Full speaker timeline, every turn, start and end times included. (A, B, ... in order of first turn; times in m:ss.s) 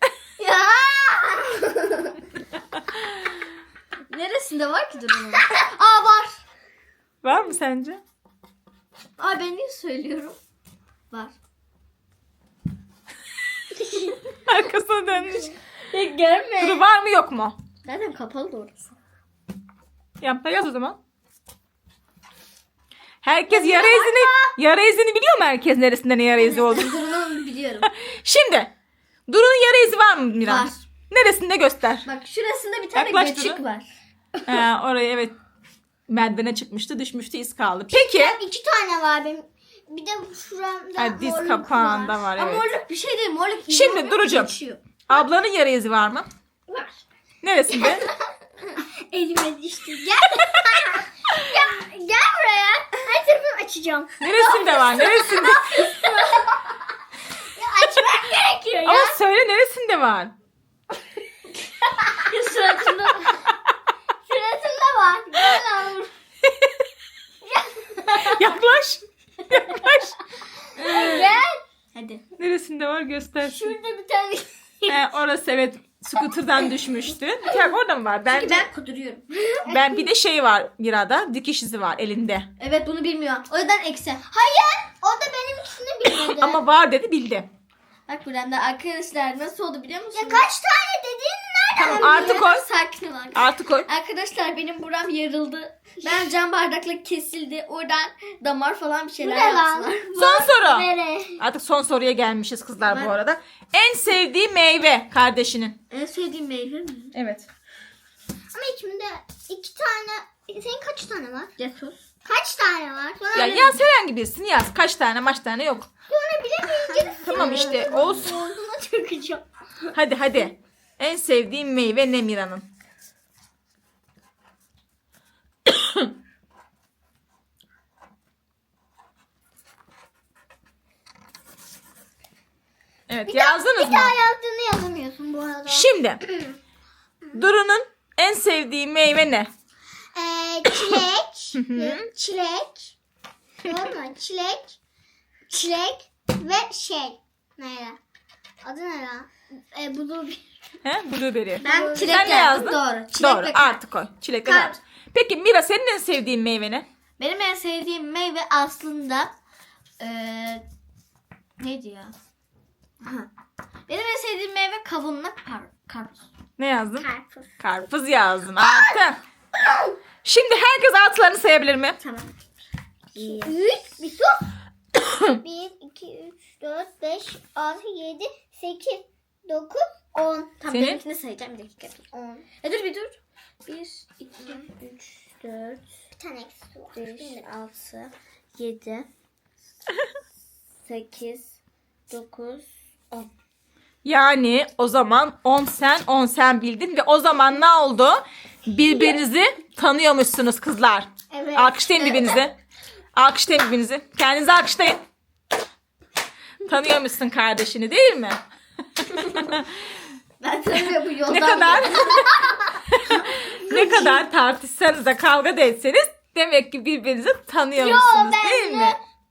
0:00.4-0:02.1 A
0:04.1-0:06.4 A
0:07.2-0:08.0 B
0:09.2-0:10.4 A
0:14.4-0:15.5 B
0:15.9-0:16.8 A
0:16.6-0:17.6 B
0:17.8-0:18.8 A
0:20.2-0:21.0 B
0:23.2-0:27.0 B
0:23.5-0:24.5 A
0:26.4-0:27.9 A
0:27.8-0:28.7 B
0:29.3-0:32.0 B
0:30.4-0:30.8 A
0:32.0-0:33.9 A
0:32.9-0:33.6 B
0:34.5-0:35.3 B
0:36.1-0:38.4 B
0:37.9-0:42.2 C
0:41.0-0:42.7 B
0:42.3-0:44.8 A
0:43.7-0:44.5 B
0:45.1-0:46.3 B
0:47.4-0:48.0 B
0:48.7-0:56.4 C
0:54.2-0:55.9 B
0:54.4-0:54.7 A
0:55.5-0:56.6 A
0:57.4-0:59.2 C
0:58.8-1:00.3 B
1:01.9-1:03.5 A
1:04.3-1:05.6 C
1:04.5-1:06.1 A
1:07.4-1:08.1 C
1:08.1-1:08.4 A
1:08.1-1:10.1 B
1:10.8-1:11.3 B
1:10.8-1:11.4 A
1:10.8-1:11.6 C
1:11.9-1:12.2 A
1:12.4-1:13.7 B
1:13.4-1:13.8 A
1:13.6-1:14.5 C
1:14.9-1:18.6 B
1:18.3-1:19.7 A
1:19.6-1:22.5 B
1:22.6-1:24.3 A
1:24.3-1:26.6 C
1:26.2-1:27.5 B
1:28.1-1:30.5 A
1:30.1-1:32.5 C
1:31.8-1:32.7 B
1:31.8-1:40.1 A
1:33.3-1:33.9 B
1:39.2-1:41.4 C
1:40.1-1:45.8 B
1:42.8-1:43.2 A
1:45.9-1:47.1 A
1:47.1-1:47.5 B
1:48.5-1:51.5 C
1:51.6-1:52.0 A
1:52.2-1:53.8 C
1:53.3-1:55.9 B
1:56.1-1:59.4 C
1:56.8-1:58.2 A
1:57.2-1:58.4 B
1:59.9-2:02.6 B
2:05.6-2:06.1 B
2:13.1-2:14.1 B
2:13.2-2:16.6 C
2:15.7-2:16.2 B
2:17.3-2:19.5 B
2:20.1-2:22.9 C
2:21.5-2:22.1 B
2:23.6-2:24.8 C
2:25.5-2:28.0 C
2:28.6-2:30.4 C
2:30.8-2:36.8 B
2:31.6-2:32.6 C
2:31.6-2:33.8 A
2:34.4-2:34.8 A
2:37.2-2:39.3 A
2:40.0-2:40.6 A
2:41.6-2:42.1 A
2:43.0-2:43.3 A
2:43.9-2:46.3 A
2:46.6-2:47.1 B
2:47.0-2:47.5 C
2:47.6-2:49.2 B
2:50.2-2:52.0 B
2:52.0-2:52.3 A
2:53.1-2:53.6 A
2:53.2-2:54.5 C
2:55.2-3:00.5 C
3:00.6-3:05.8 A
3:00.7-3:01.0 B
3:02.1-3:02.4 C
3:06.2-3:07.5 C
3:06.9-3:09.1 A
3:10.8-3:11.5 A
3:12.1-3:13.3 A
3:14.0-3:22.5 B
3:21.3-3:22.4 C
3:23.2-3:25.0 B
3:26.6-3:28.4 B
3:29.2-3:29.5 A
3:29.2-3:29.6 B
3:30.4-3:32.6 A
3:31.3-3:39.0 B
3:33.7-3:34.2 C
3:37.8-3:39.0 C